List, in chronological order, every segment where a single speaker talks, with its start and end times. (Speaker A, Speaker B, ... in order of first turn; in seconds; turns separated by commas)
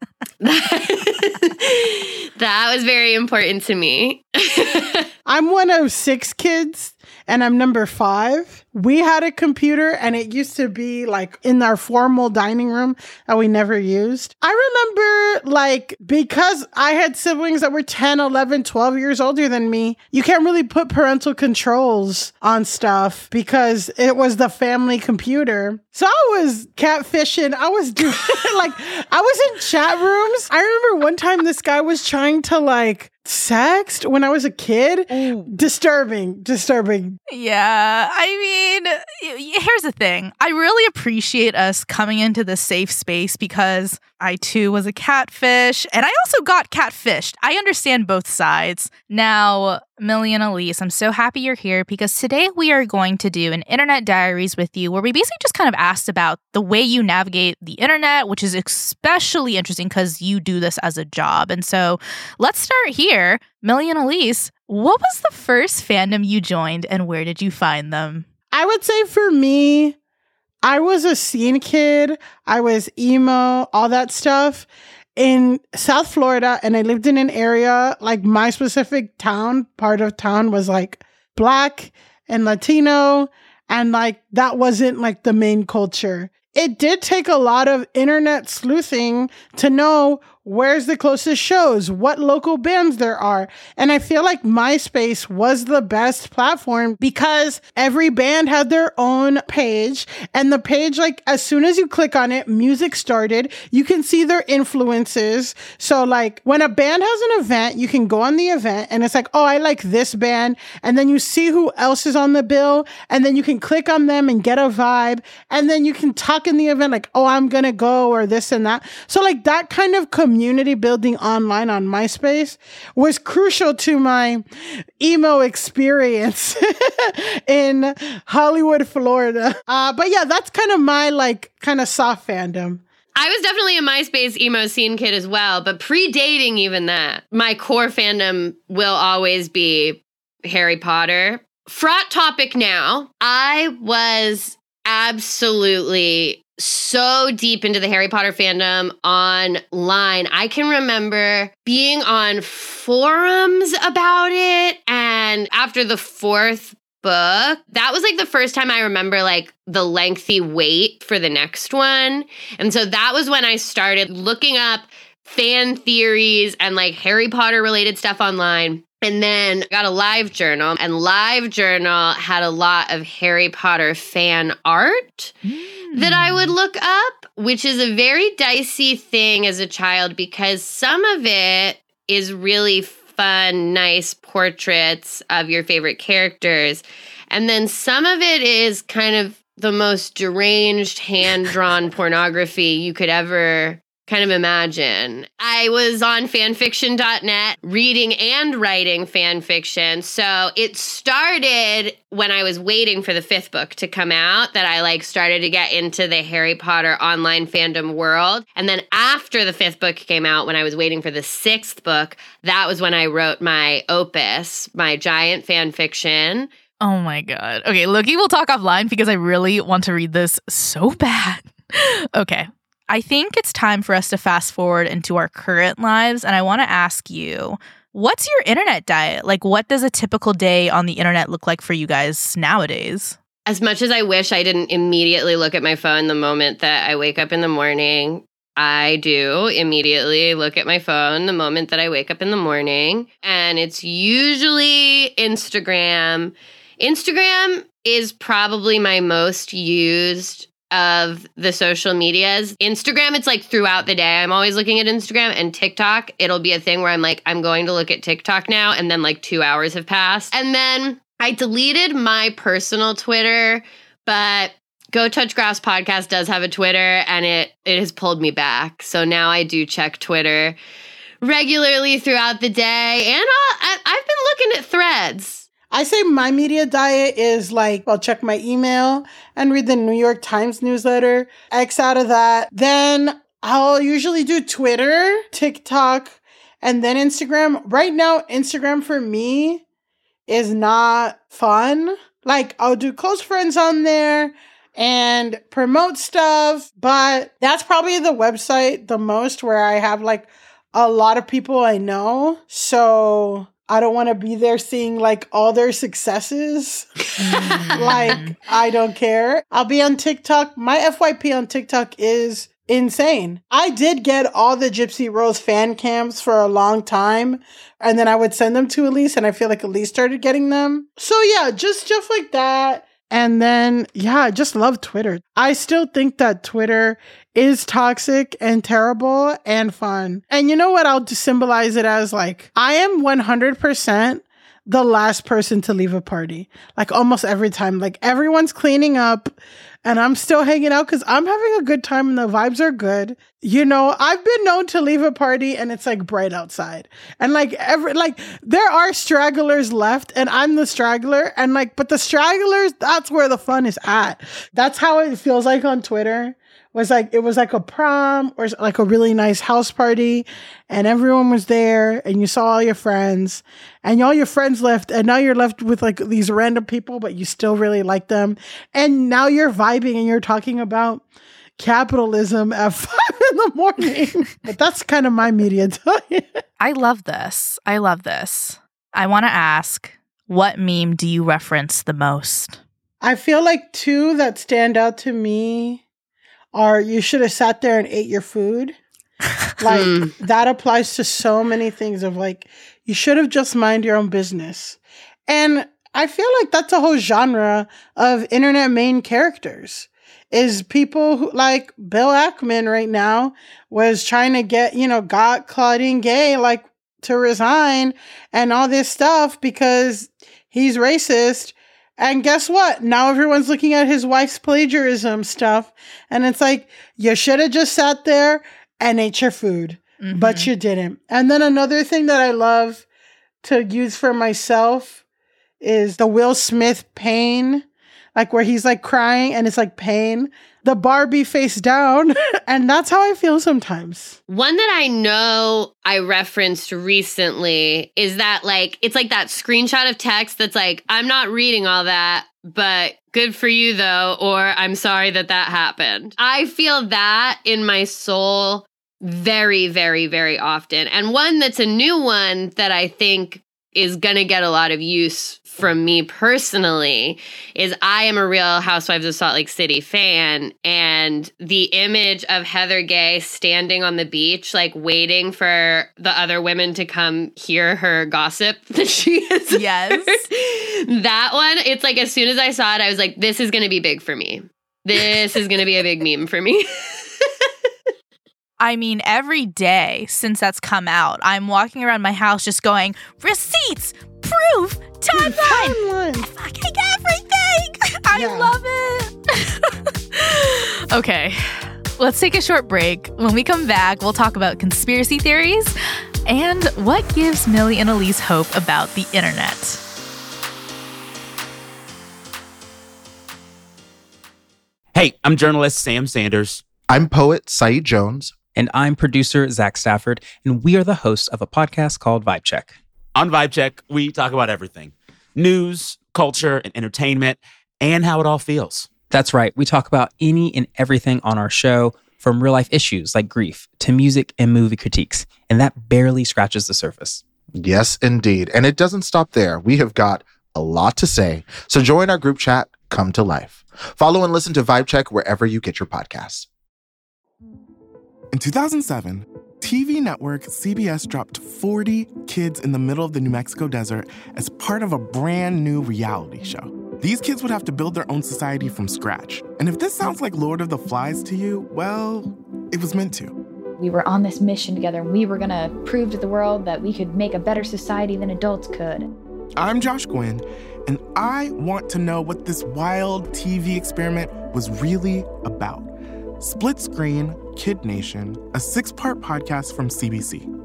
Speaker A: 0.4-5.1, Speaker B: 5.3-37.2, Speaker C: 35.2-35.5, Speaker C: 37.3-68.3, Speaker B: 68.5-70.0, Speaker B: 70.6-124.5, Speaker B: 125.0-132.8, Speaker A: 133.2-175.3, Speaker C: 175.5-176.6, Speaker A: 175.9-216.5, Speaker C: 216.8-233.2, Speaker A: 233.5-270.6, Speaker A: 271.2-275.5, Speaker B: 275.7-289.6, Speaker B: 290.3-371.0, Speaker C: 307.2-308.4, Speaker B: 371.6-376.4, Speaker C: 376.6-382.6, Speaker B: 383.0-385.8, Speaker B: 386.5-388.8, Speaker B: 389.6-422.9, Speaker A: 389.7-390.1, Speaker C: 420.0-420.5, Speaker B: 423.4-425.0, Speaker B: 425.6-427.6, Speaker B: 428.2-434.2, Speaker A: 434.3-477.5, Speaker C: 469.5-470.3, Speaker C: 478.6-495.7, Speaker B: 485.1-486.3, Speaker B: 488.1-488.6, Speaker C: 496.3-499.8, Speaker D: 504.9-506.6, Speaker E: 506.9-508.4, Speaker F: 508.6-512.8, Speaker D: 513.1-518.9, Speaker F: 519.1-527.2, Speaker E: 527.6-536.5, Speaker G: 538.3-553.4, Speaker H: 553.8-559.1, Speaker G: 559.6-570.5